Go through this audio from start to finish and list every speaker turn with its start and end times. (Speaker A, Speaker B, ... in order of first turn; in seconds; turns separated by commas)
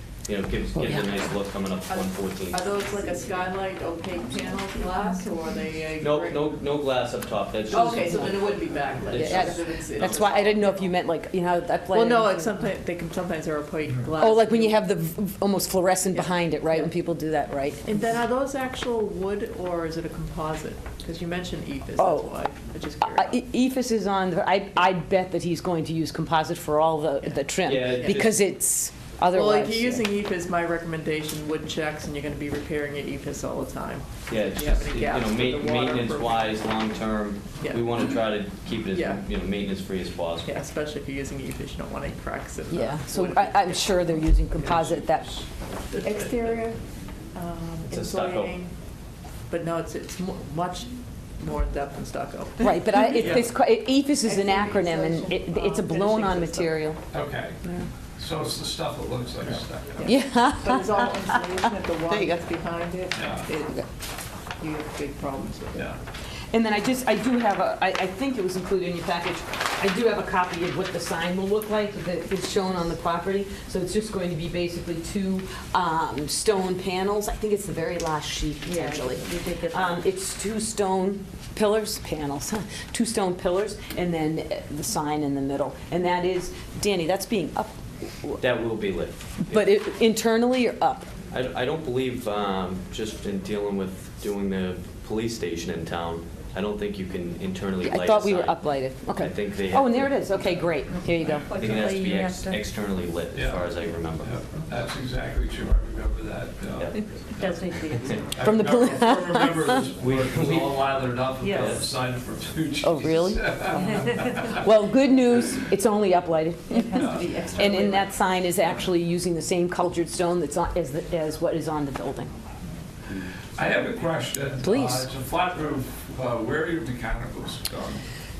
Speaker A: 0.3-2.6, Speaker B: 1.9-6.6, Speaker A: 6.0-8.5, Speaker B: 7.7-10.9, Speaker A: 9.1-10.2, Speaker C: 9.1-12.7, Speaker B: 11.9-14.8, Speaker C: 14.2-18.0, Speaker B: 16.1-16.9, Speaker B: 17.8-23.4, Speaker C: 21.9-22.3, Speaker C: 23.0-30.0, Speaker B: 27.2-28.2, Speaker A: 27.6-28.4, Speaker B: 29.3-36.6, Speaker A: 34.3-40.5, Speaker B: 37.6-38.1, Speaker B: 38.9-39.2, Speaker B: 40.4-44.0, Speaker C: 42.7-45.3, Speaker D: 44.6-45.4, Speaker B: 45.9-46.8, Speaker B: 47.3-48.7, Speaker A: 47.9-48.5, Speaker B: 49.5-53.5, Speaker C: 52.6-57.0, Speaker D: 53.2-53.4, Speaker B: 54.2-56.9, Speaker D: 57.1-57.6, Speaker D: 58.2-60.2, Speaker B: 59.4-63.9, Speaker C: 60.0-61.4, Speaker C: 62.0-62.5, Speaker D: 63.1-63.5, Speaker B: 64.6-66.0, Speaker C: 66.5-88.4, Speaker E: 78.6-80.0, Speaker A: 88.4-89.6, Speaker C: 89.5-91.1, Speaker A: 91.3-100.2, Speaker C: 97.8-101.5, Speaker E: 101.0-102.6, Speaker A: 101.6-104.4, Speaker D: 103.3-103.7, Speaker D: 104.2-107.6, Speaker E: 107.4-108.4, Speaker D: 108.3-114.5, Speaker C: 108.4-109.9, Speaker A: 110.0-110.9, Speaker E: 111.4-111.8, Speaker A: 111.5-111.8, Speaker C: 112.8-122.3, Speaker E: 113.8-114.1, Speaker E: 116.7-118.1, Speaker D: 116.9-117.4, Speaker D: 123.6-128.0, Speaker C: 124.6-125.0